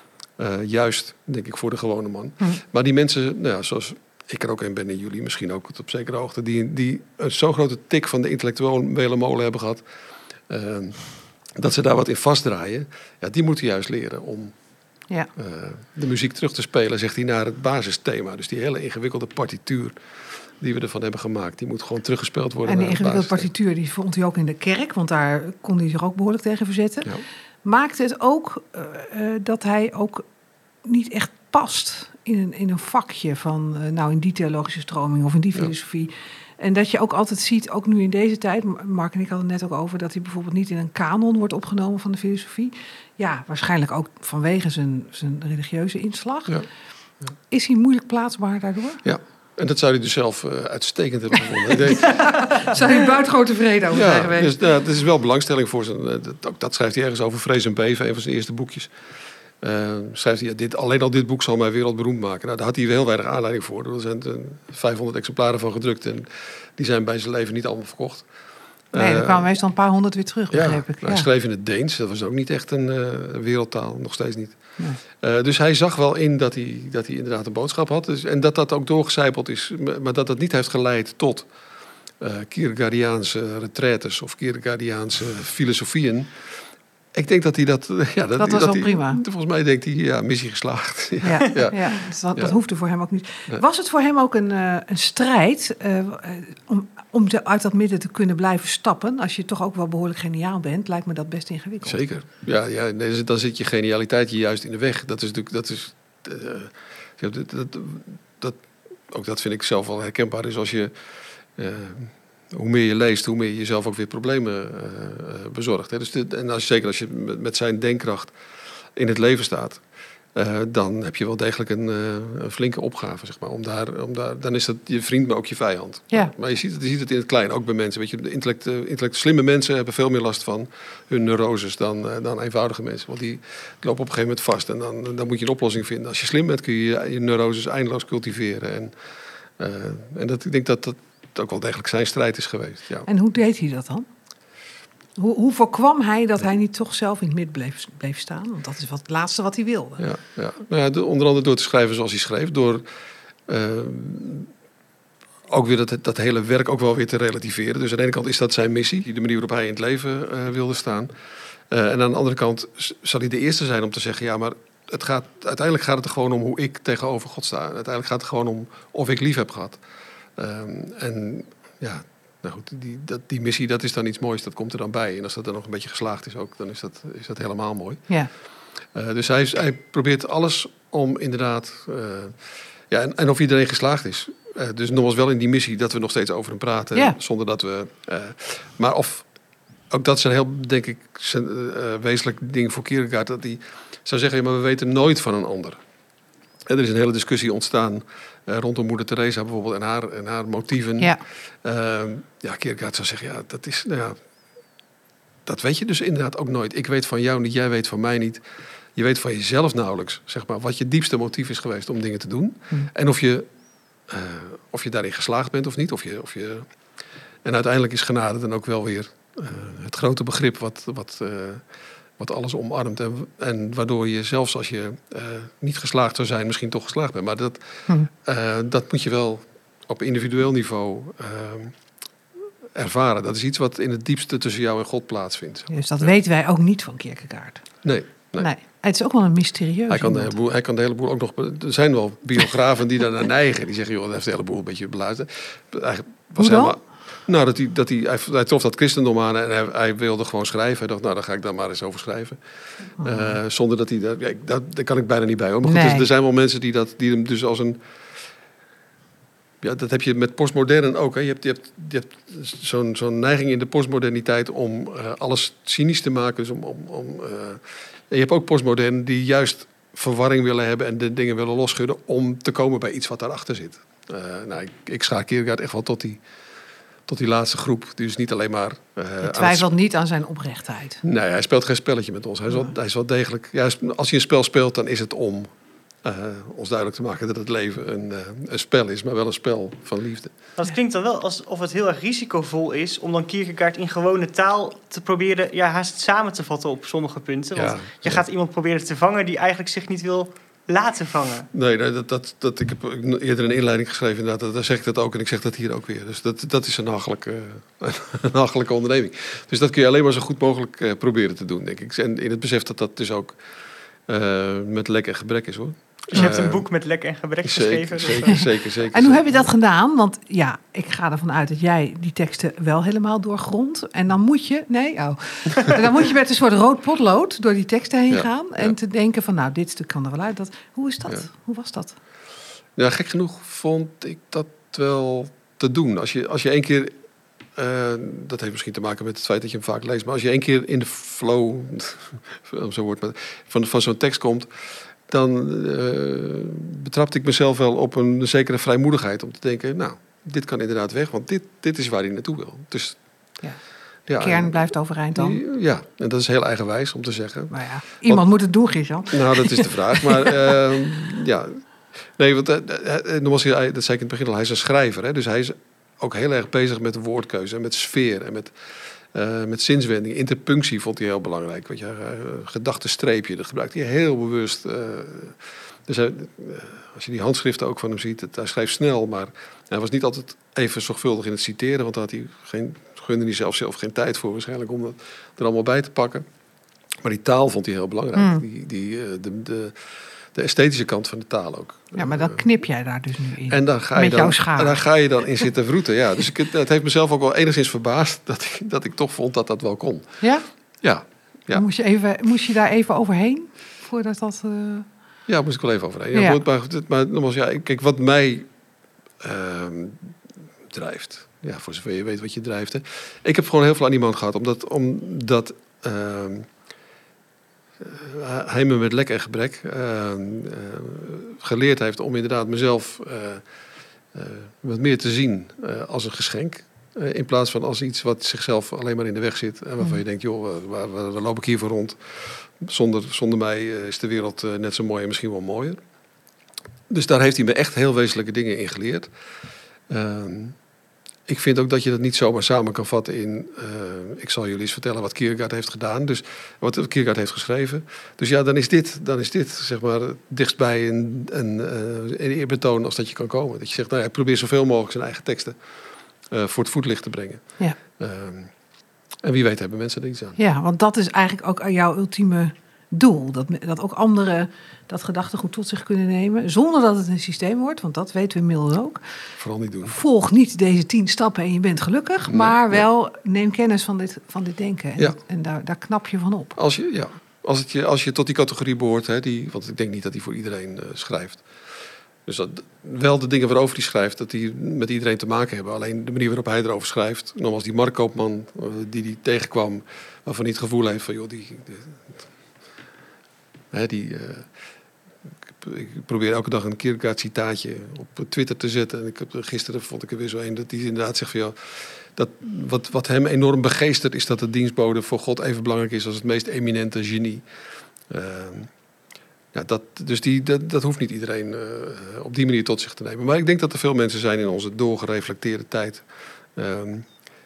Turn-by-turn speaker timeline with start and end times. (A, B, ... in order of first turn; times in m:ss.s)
0:00.4-0:09.8 A
0:10.5-0:14.5 A
0:15.4-0:20.0 A
0:20.6-0:23.5 A
0:22.6-0:27.1 B
0:27.6-0:30.2 B
0:30.8-0:46.6 B
0:47.5-0:49.0 B
0:49.0-0:52.8 A
0:51.9-0:54.5 B
0:53.9-0:58.9 A
0:59.6-1:08.3 A
1:08.9-1:09.5 A
1:08.9-1:11.3 B
1:10.5-1:21.5 A
1:22.2-1:26.5 A
1:27.1-1:32.6 A
1:28.4-1:29.2 B
1:31.2-1:42.0 B
1:41.8-1:48.6 A
1:49.1-1:50.9 A
1:51.6-1:58.3 A
1:58.9-1:59.8 A
2:00.3-2:18.9 A
2:19.6-2:23.1 A
2:23.0-2:24.0 B
2:25.2-2:30.0 B
2:30.0-2:32.8 A
2:33.5-2:34.5 A
2:35.5-2:41.1 A
2:41.7-2:49.8 A
2:50.4-2:58.1 A
2:58.9-3:09.2 A
3:09.9-3:15.8 A
3:16.6-3:24.2 A
3:25.4-3:28.4 A
3:28.9-3:33.5 A
3:34.1-3:36.7 A
3:37.4-3:41.6 A
3:42.2-3:51.7 A
3:52.7-3:56.1 A
3:55.7-3:57.6 B
3:57.8-3:58.5 A
3:58.4-4:00.3 B
3:59.9-4:12.4 A
4:06.4-4:06.7 B
4:13.0-4:17.8 A
4:13.0-4:13.3 B
4:15.6-4:16.0 B
4:19.6-4:36.2 A
4:37.1-4:39.7 A
4:39.2-4:41.0 B
4:41.0-4:45.5 A
4:46.0-4:50.3 A
4:50.6-5:01.5 C
4:57.5-4:58.2 A
5:01.5-5:13.4 A
5:14.1-5:16.6 A
5:16.1-5:18.4 C
5:17.4-5:19.5 A
5:18.9-5:32.0 B
5:28.1-5:28.7 A
5:32.8-5:37.0 A
5:37.5-5:44.5 A
5:45.1-5:53.0 A
5:54.1-5:57.5 A
5:54.2-5:55.4 B
5:57.5-6:00.3 B
5:59.0-6:08.5 A
6:09.1-6:26.2 A
6:27.0-6:32.6 A
6:28.2-6:28.4 B
6:31.9-6:34.8 B
6:33.5-6:40.2 A
6:40.2-6:40.5 B
6:40.8-6:41.6 A
6:41.5-6:44.9 B
6:45.3-6:48.5 A
6:46.1-6:46.4 B
6:49.2-6:50.1 A
6:50.7-6:56.5 A
6:57.8-7:03.4 A
7:04.1-7:15.8 A
7:16.9-7:19.1 A
7:19.9-7:20.6 A
7:21.3-7:35.6 A
7:36.3-7:38.5 A
7:39.2-7:40.4 A
7:40.4-7:49.0 B
7:49.4-7:49.9 A
7:49.8-7:56.5 B
7:52.3-7:52.8 A
7:56.6-8:01.5 A
8:02.2-8:12.2 A
8:13.7-8:14.5 A
8:15.5-8:27.4 A
8:28.1-8:28.7 A
8:29.5-8:37.1 A